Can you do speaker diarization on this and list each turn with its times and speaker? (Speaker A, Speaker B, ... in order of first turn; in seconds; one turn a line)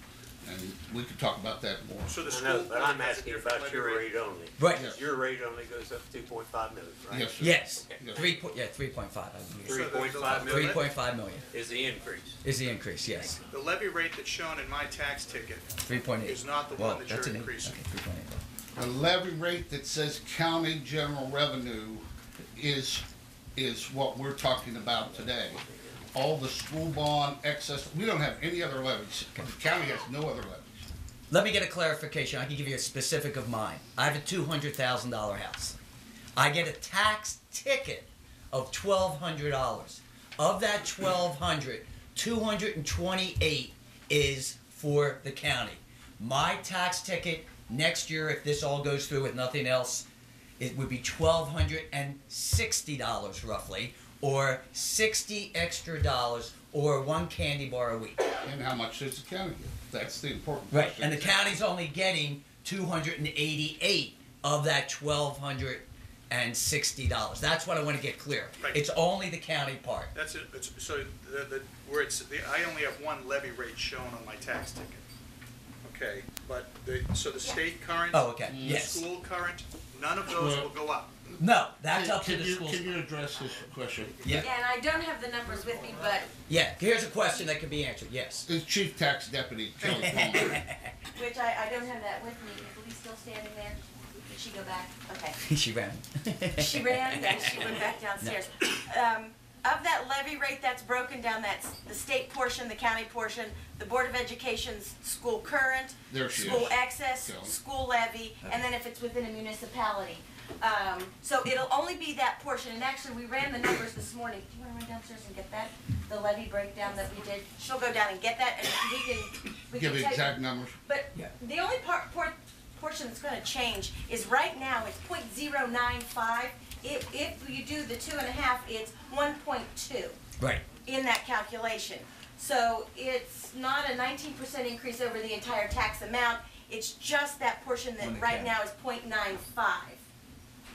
Speaker A: 0.4-2.1
Speaker B: 2.1-4.1
Speaker C: 2.3-8.3
Speaker D: 4.6-4.9
Speaker A: 4.7-5.0
Speaker A: 7.1-8.3
Speaker D: 7.4-11.5
Speaker C: 9.6-10.9
Speaker B: 9.7-10.8
Speaker C: 11.5-12.4
Speaker D: 12.4-13.4
Speaker B: 13.4-15.7
Speaker D: 15.8-18.4
Speaker B: 16.2-17.8
Speaker A: 18.8-23.1
Speaker A: 23.6-30.9
Speaker C: 25.1-25.9
Speaker D: 31.3-35.8
Speaker D: 36.4-50.1
Speaker D: 50.6-58.2
Speaker A: 58.5-61.5
Speaker D: 60.7-70.1
Speaker B: 70.1-75.0
Speaker B: 75.8-81.1
Speaker D: 78.1-79.0
Speaker A: 78.5-78.9
Speaker A: 80.3-80.7
Speaker D: 81.4-83.0
Speaker A: 81.9-84.5
Speaker D: 84.2-84.5
Speaker E: 84.4-86.3
Speaker D: 86.5-88.5
Speaker A: 88.5-90.6
Speaker D: 89.8-90.9
Speaker E: 91.2-95.4
Speaker D: 95.4-98.4
Speaker E: 96.6-130.2
Speaker A: 106.1-107.6
Speaker A: 119.7-120.8
Speaker D: 130.4-130.7
Speaker E: 130.8-140.0
Speaker D: 138.0-138.6